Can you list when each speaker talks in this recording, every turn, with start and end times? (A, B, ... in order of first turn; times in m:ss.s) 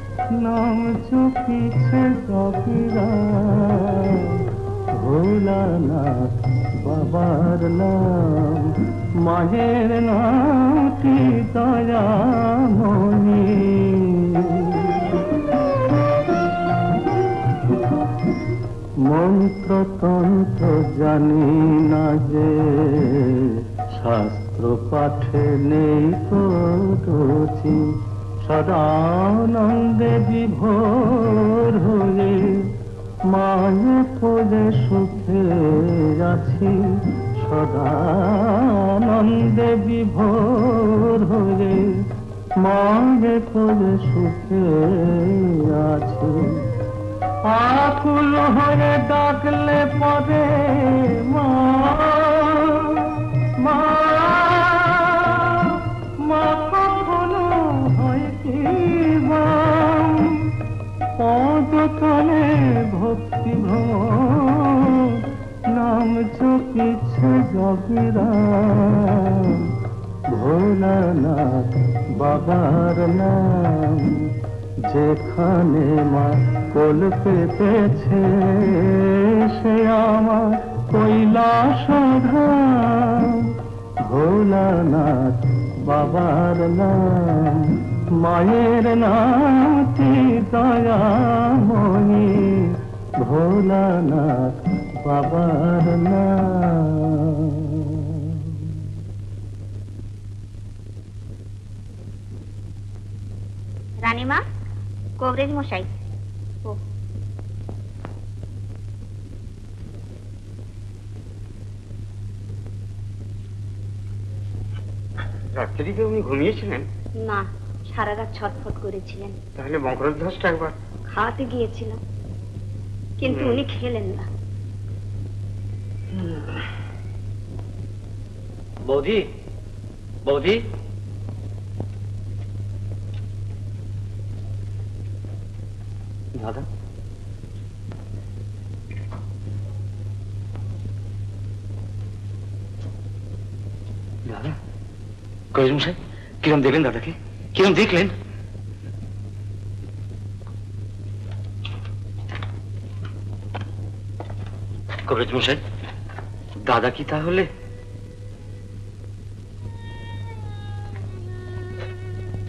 0:00.4-0:04.2 A
0:05.0-0:08.7 A
0:09.2-0:14.9 A
0:19.0-0:23.4 A
0:23.9-0:27.9 A
0:28.4-0:32.6 A
0:33.3-0:36.7 A
0:37.4-0:41.8 A
0:42.6-0:46.6 A
0:47.5-0:53.1 A
0:53.6-1:00.3 A
1:01.2-1:05.2 A
1:05.7-1:09.6 A
1:10.3-1:14.1 A
1:14.9-1:23.4 A
1:24.1-1:27.7 A
1:28.2-1:37.5 A
1:44.0-1:44.4 B
1:45.2-1:45.9 B
1:55.6-1:56.8 C
1:57.2-1:59.4 B
1:59.6-2:00.7 C
2:01.1-2:02.0 B
2:03.2-2:04.2 B
2:16.3-2:16.6 D
2:24.2-2:24.6 D
2:25.5-2:28.1 D
2:35.1-2:35.6 D
2:36.6-2:37.5 D